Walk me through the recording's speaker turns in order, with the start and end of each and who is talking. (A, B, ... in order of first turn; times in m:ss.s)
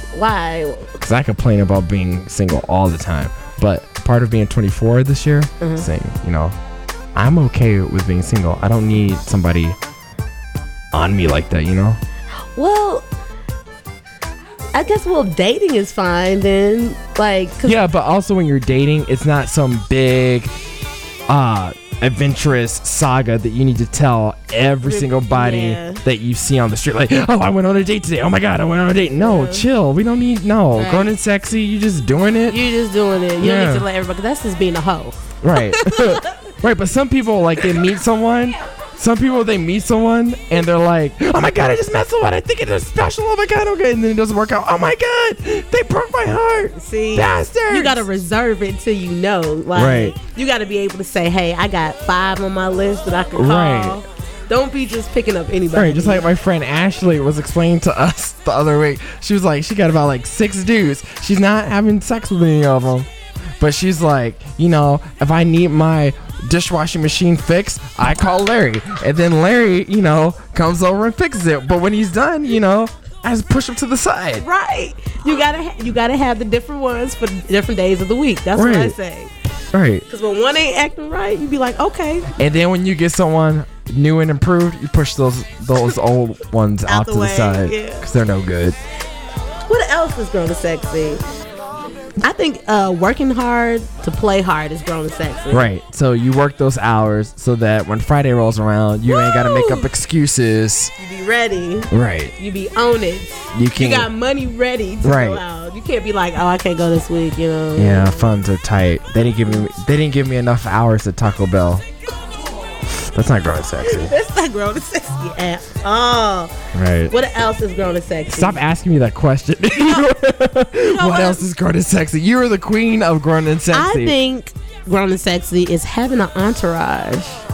0:00.1-0:01.0 A
0:01.0-0:06.6 B
0:05.6-0:05.9 A
0:07.2-0:09.8 B
0:10.9-0:12.0 B
0:12.6-0:13.1 A
0:14.7-0:17.8 A
0:17.6-0:20.6 B
0:21.3-0:32.6 B
0:24.8-0:26.0 A
0:29.2-0:29.6 A
0:30.8-0:31.1 A
0:32.5-0:36.4 A
0:33.4-0:33.9 B
0:35.4-0:48.0 B
0:46.7-0:56.3 A
0:49.8-0:50.2 B
0:53.4-0:54.0 B
0:55.7-1:03.1 B
1:03.6-1:14.5 B
1:14.4-1:19.3 A
1:18.6-1:19.0 B
1:19.7-1:20.0 B
1:20.1-1:22.3 A
1:22.4-1:28.8 B
1:26.9-1:28.1 A
1:29.7-1:31.2 A
1:32.2-1:35.7 A
1:35.5-1:40.9 B
1:39.1-1:39.9 A
1:41.0-1:48.3 A
1:41.9-1:42.3 B
1:43.5-1:44.1 B
1:45.0-1:45.4 B
1:47.8-1:51.8 B
1:52.9-1:54.1 B
1:53.8-1:56.6 A
1:56.7-1:57.1 B
1:57.1-1:58.6 A
1:58.3-2:04.2 B
2:00.9-2:01.4 A
2:03.7-2:07.4 A